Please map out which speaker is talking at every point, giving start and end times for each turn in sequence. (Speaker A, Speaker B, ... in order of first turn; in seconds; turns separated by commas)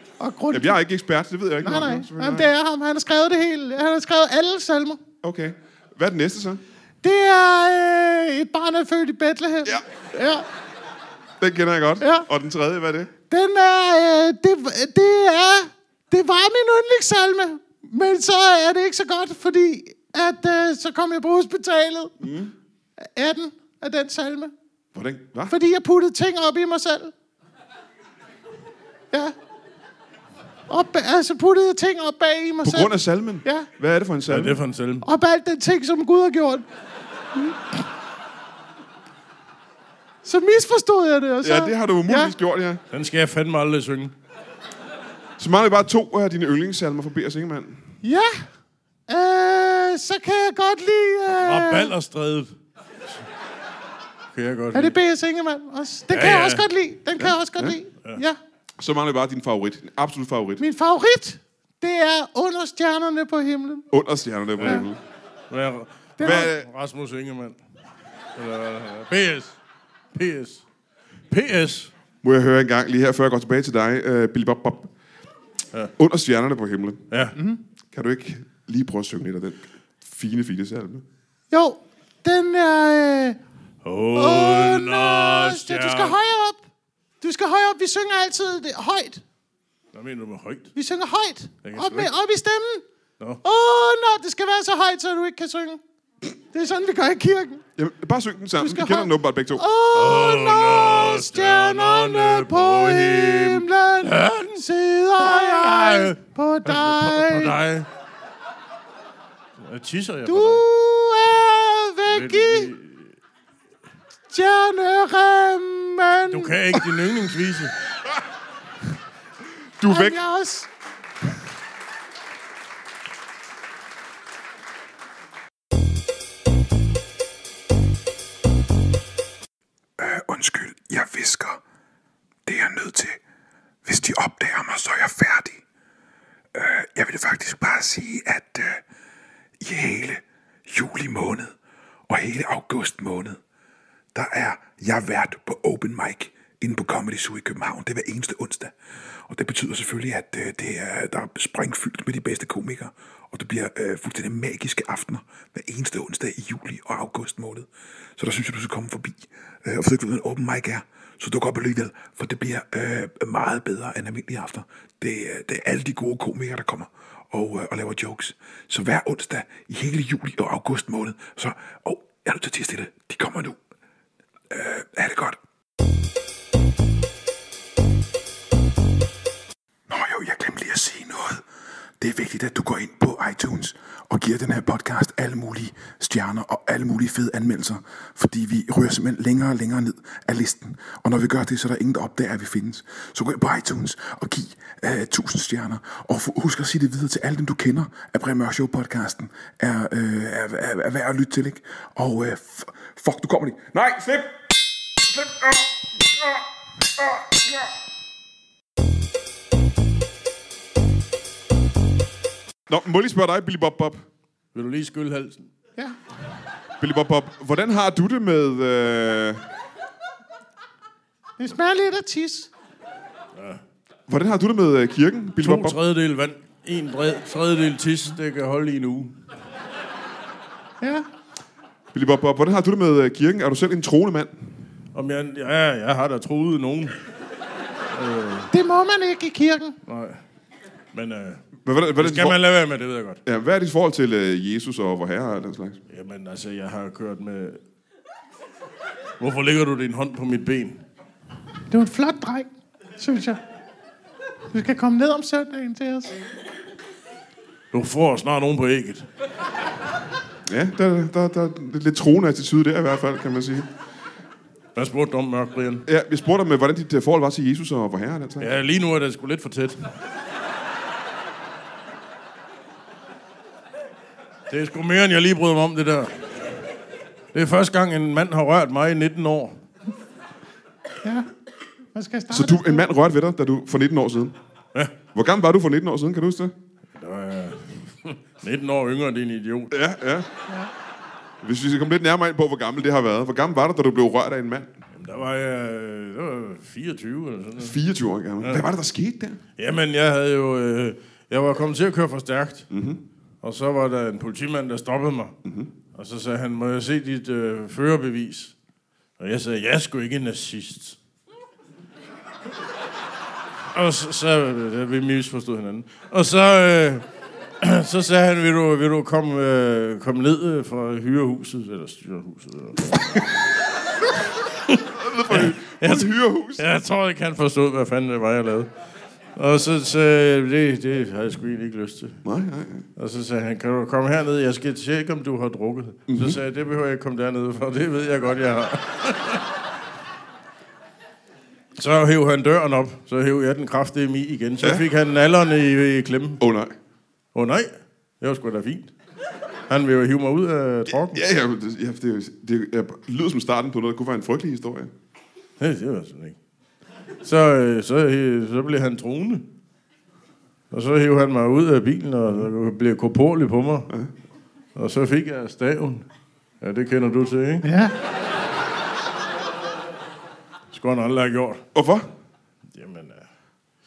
Speaker A: 0.2-0.8, Speaker B: 0.5-2.5, Speaker A: 1.6-5.0, Speaker B: 5.2-6.6, Speaker A: 7.0-10.4, Speaker B: 11.4-13.1, Speaker A: 12.0-12.3, Speaker A: 13.3-22.1, Speaker B: 22.2-22.5, Speaker A: 23.0-24.5, Speaker B: 24.9-25.5, Speaker A: 25.5-27.1, Speaker A: 30.7-33.7, Speaker B: 32.6-34.6, Speaker C: 34.3-35.0, Speaker A: 35.0-36.6, Speaker A: 40.2-42.3, Speaker B: 41.4-42.8, Speaker C: 42.9-44.1, Speaker B: 45.4-47.8, Speaker A: 48.0-48.5, Speaker A: 49.1-51.9, Speaker C: 51.3-52.5, Speaker C: 54.3-55.0, Speaker A: 54.7-58.4, Speaker C: 56.1-56.7, Speaker B: 57.2-57.8, Speaker B: 58.8-60.6, Speaker A: 60.6-63.9, Speaker B: 63.9-65.0, Speaker C: 64.6-64.9, Speaker C: 65.5-67.6, Speaker A: 66.2-66.5, Speaker B: 66.2-66.7, Speaker C: 68.3-69.6, Speaker C: 70.1-70.6, Speaker C: 71.3-71.9, Speaker B: 72.2-74.9, Speaker B: 76.0-77.0, Speaker C: 77.1-77.3, Speaker B: 77.9-81.0, Speaker A: 81.5-83.4, Speaker C: 83.8-86.2, Speaker A: 84.1-86.6, Speaker A: 87.2-89.2, Speaker C: 89.9-90.7, Speaker A: 90.7-92.8, Speaker C: 91.6-92.1, Speaker A: 93.4-95.8, Speaker A: 96.5-97.6, Speaker B: 97.8-99.6, Speaker A: 98.6-107.6, Speaker C: 99.9-107.9, Speaker C: 109.6-110.6, Speaker A: 110.2-112.7, Speaker C: 112.1-113.1, Speaker A: 114.3-116.6, Speaker C: 116.3-117.7, Speaker B: 119.8-120.2, Speaker A: 119.8-120.7, Speaker D: 130.0-131.6, Speaker D: 132.4-133.2, Speaker D: 133.8-135.6, Speaker D: 136.5-138.8, Speaker D: 139.6-141.5, Speaker D: 142.1-143.4, Speaker D: 144.1-148.7, Speaker D: 149.3-173.6, Speaker D: 174.5-175.4, Speaker D: 179.9-181.4, Speaker D: 182.0-203.8, Speaker B: 203.7-204.3, Speaker B: 205.1-206.3, Speaker B: 212.7-214.0, Speaker C: 214.5-215.5, Speaker B: 216.8-219.4, Speaker A: 221.4-222.5, Speaker C: 223.3-223.6, Speaker B: 224.1-225.8, Speaker C: 225.4-229.1, Speaker A: 230.8-231.1, Speaker B: 231.9-234.3, Speaker C: 234.9-236.9, Speaker C: 237.9-238.5, Speaker A: 238.5-239.8, Speaker C: 239.9-240.2, Speaker C: 240.9-241.4, Speaker B: 241.6-242.4, Speaker C: 242.0-243.2, Speaker B: 243.2-245.8, Speaker C: 245.9-247.6, Speaker C: 249.2-250.8, Speaker A: 251.7-253.4, Speaker A: 254.5-256.1, Speaker C: 257.7-259.1, Speaker B: 260.5-263.7, Speaker C: 264.7-265.8, Speaker B: 265.9-268.5, Speaker C: 268.4-269.9, Speaker C: 274.5-276.1, Speaker C: 277.3-279.6, Speaker A: 281.9-282.9, Speaker B: 282.3-284.3, Speaker B: 285.1-286.5, Speaker C: 286.9-289.7, Speaker B: 289.7-290.3, Speaker B: 291.4-294.7, Speaker C: 294.9-297.8, Speaker B: 297.6-299.4, Speaker C: 299.6-302.7, Speaker B: 302.7-303.0, Speaker C: 303.4-305.4, Speaker B: 305.4-305.7, Speaker C: 305.9-308.5, Speaker C: 309.2-311.0, Speaker C: 313.7-317.0, Speaker C: 317.6-323.2, Speaker C: 324.7-328.7, Speaker B: 324.9-326.6, Speaker C: 329.4-332.2, Speaker B: 332.2-332.8, Speaker C: 332.9-339.4, Speaker B: 336.1-336.4, Speaker C: 341.8-346.4, Speaker B: 346.4-346.7, Speaker C: 347.3-347.7, Speaker C: 348.2-348.9, Speaker C: 349.7-351.2, Speaker B: 350.9-354.9, Speaker C: 355.6-356.4, Speaker C: 357.2-359.5, Speaker C: 360.7-363.9, Speaker C: 364.7-366.1, Speaker C: 366.6-367.6, Speaker A: 367.6-367.9, Speaker C: 370.7-371.6, Speaker B: 371.7-372.1, Speaker C: 372.7-373.2